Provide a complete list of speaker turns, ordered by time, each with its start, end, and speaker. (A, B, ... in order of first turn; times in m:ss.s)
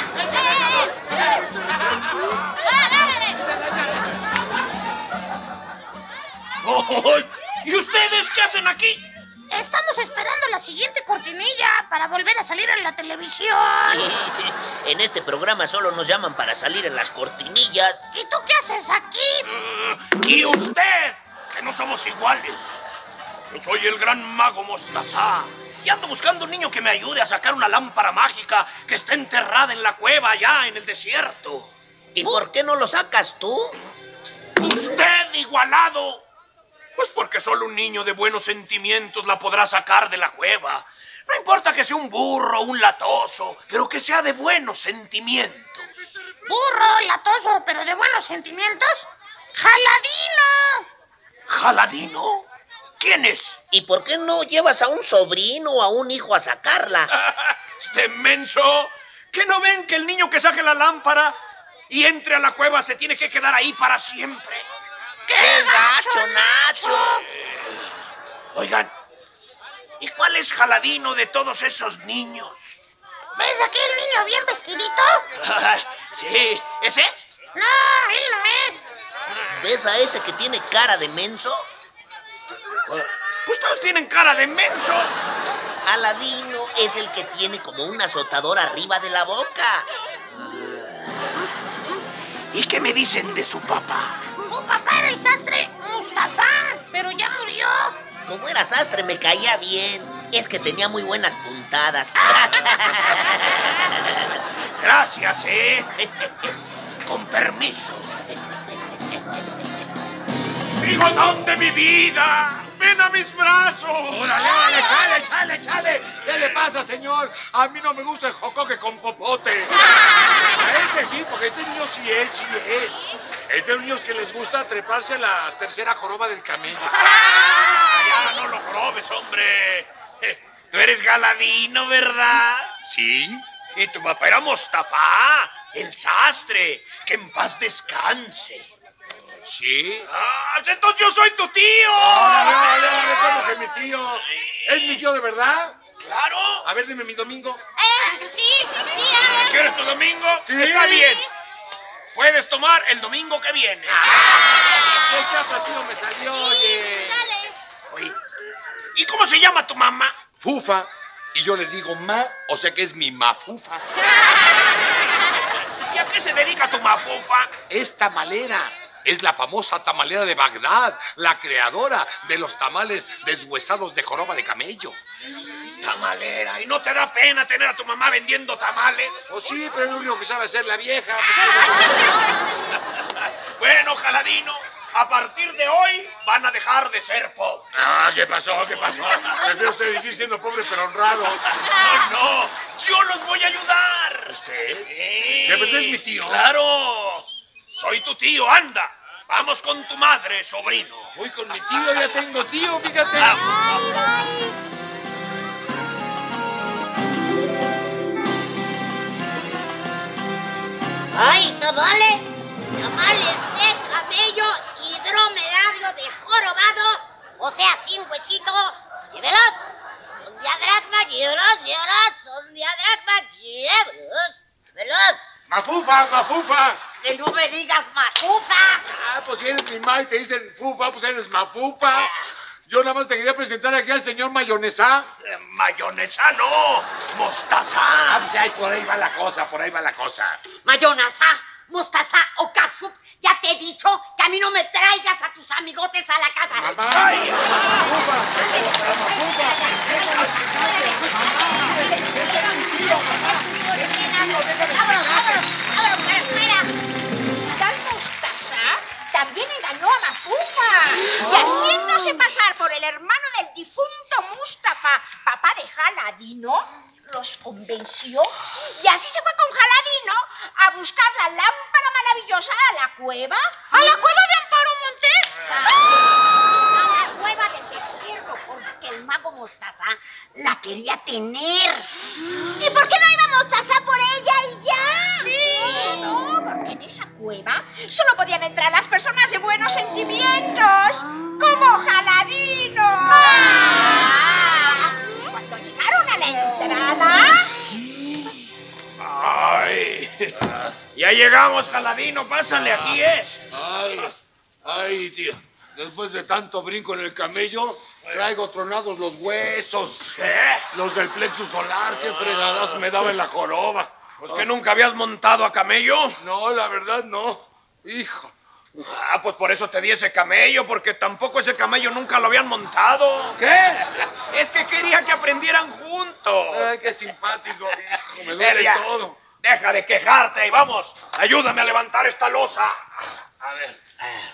0:00.2-0:00.9 A
0:02.6-0:03.4 A
0:06.6-0:09.0 B
0:09.5-0:14.0 A
0:13.9-0:18.1 C
0:18.1-0:19.5 A
0:19.5-0:22.8 B
0:23.5-0:31.7 B
0:32.2-0:33.8 C
0:34.6-0:36.2 B
0:37.0-0:45.9 B
0:46.5-0:49.0 A
0:49.6-0:50.8 A
0:51.5-0:52.5 B
0:53.0-0:53.6 B
0:53.7-0:57.1 C
0:57.1-1:01.4 B
1:01.9-1:04.7 B
1:05.3-1:07.2 C
1:08.5-1:08.9 B
1:10.0-1:12.8 B
1:13.4-1:15.2 A
1:15.4-1:17.2 B
1:17.6-1:18.8 A
1:19.5-1:21.7 C
1:23.5-1:25.3 B
1:25.8-1:29.9 C
1:30.5-1:30.8 B
1:32.5-1:34.2 B
1:34.5-1:37.9 A
1:38.3-1:43.6 C
1:44.8-1:46.5 B
1:47.0-1:48.2 B
1:50.8-1:54.3 B
1:54.1-1:59.9 D
2:00.5-2:07.1 D
2:07.0-2:12.7 B
2:12.8-2:13.4 D
2:13.8-2:18.6 B
2:19.5-2:20.1 D
2:20.1-2:23.4 B
2:22.0-2:25.8 D
2:24.3-2:25.0 B
2:26.0-2:26.7 B
2:26.6-2:27.6 D
2:27.8-2:29.1 E
2:29.3-2:31.2 B
2:30.5-2:31.2 D
2:32.1-2:34.7 B
2:34.1-2:37.2 D
2:37.9-2:38.2 B
2:39.0-2:40.1 B
2:40.4-2:43.9 D
2:45.9-2:47.5 B
2:47.7-2:55.0 D
2:55.8-2:59.2 B
2:59.3-3:02.1 D
3:03.6-3:07.6 B
3:07.7-3:11.4 D
3:09.0-3:09.4 B
3:11.5-3:14.4 B
3:14.3-3:14.9 D
3:14.9-3:21.1 B
3:15.4-3:16.5 D
3:21.2-3:23.5 D
3:23.1-3:23.8 B
3:23.6-3:24.4 A
3:31.2-3:32.2 F
3:32.8-3:39.6 F
3:40.2-3:45.2 F
3:45.5-3:46.8 D
3:47.0-3:48.8 F
3:48.9-3:52.1 D
3:52.7-3:55.1 D
3:55.2-3:58.3 B
3:58.1-4:00.4 D
4:00.6-4:06.8 F
4:06.6-4:13.2 D
4:06.9-4:07.8 B
4:08.5-4:10.4 B
4:11.4-4:16.7 E
4:12.9-4:13.9 F
4:13.9-4:15.4 D
4:17.5-4:33.6 E
4:36.7-4:41.9 F
4:42.6-4:44.7 A
4:43.6-4:45.3 F
4:45.2-4:57.5 E
4:59.0-5:03.4 B
5:03.5-5:10.2 D
5:10.2-5:10.6 B
5:10.7-5:14.5 D
5:12.0-5:12.8 B
5:14.2-5:16.2 B
5:16.2-5:18.3 D
5:18.8-5:23.4 B
5:23.4-5:23.9 D
5:24.3-5:26.7 B
5:26.5-5:29.2 D
5:28.4-5:28.9 B
5:29.4-5:32.8 B
5:33.4-5:33.8 D